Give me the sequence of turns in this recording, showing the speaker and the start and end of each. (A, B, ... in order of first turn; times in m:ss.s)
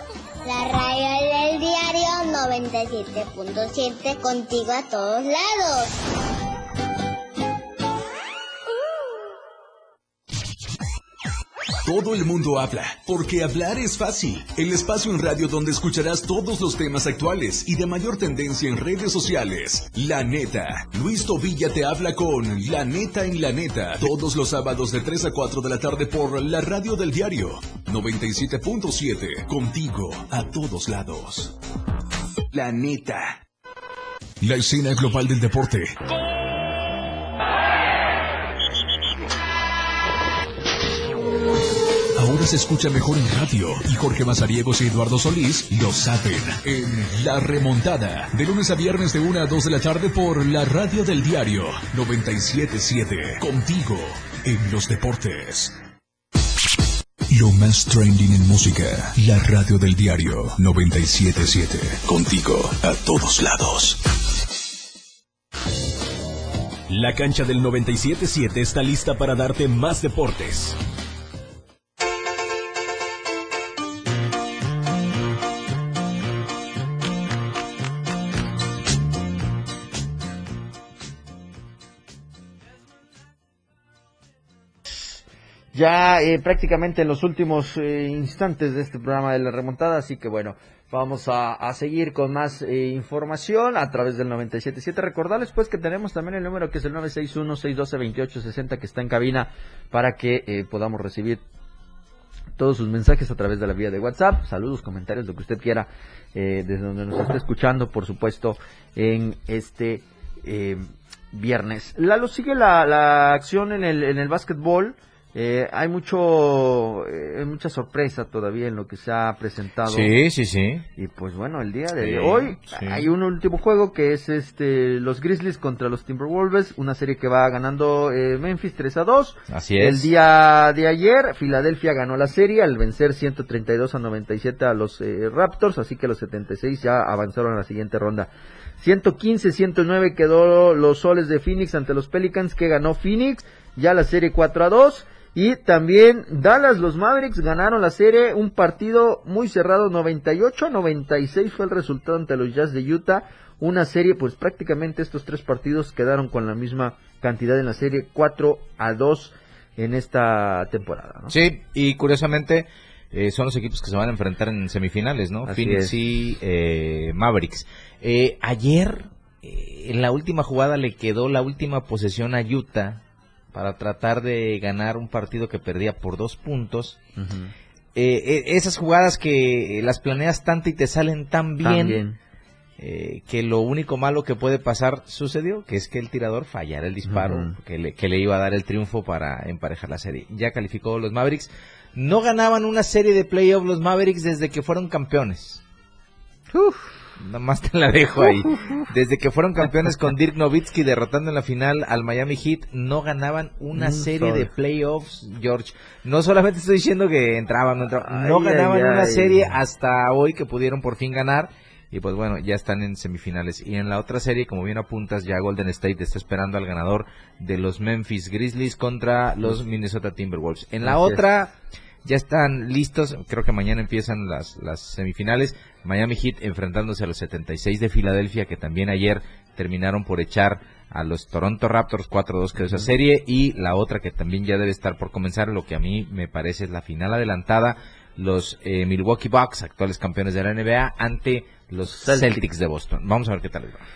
0:00.4-0:05.9 A
0:11.8-0:31.6 B
0:32.5-0:33.4 B
0:34.4-0:36.0 B
0:42.2-0:55.8 B
0:57.3-1:04.0 B
1:06.9-1:10.8 C
1:25.7-1:41.4 D
1:42.6-2:00.1 D
1:59.9-2:00.8 E
2:01.0-2:18.3 D
2:02.0-2:03.0 E
2:09.5-2:10.1 E
2:18.8-2:41.3 D
2:41.3-2:53.0 E
2:45.4-2:45.9 D
2:53.5-2:57.0 E
2:57.2-2:57.5 D
2:58.0-3:02.0 E
3:01.6-3:02.2 D
3:02.8-3:15.6 E
3:07.0-3:07.5 D
3:16.5-3:16.8 D
3:17.2-3:41.5 E
3:23.7-3:24.5 D
3:28.0-3:29.5 D
3:40.8-3:41.2 D
3:42.0-4:03.8 E
3:52.6-3:52.9 D
4:01.9-4:02.4 D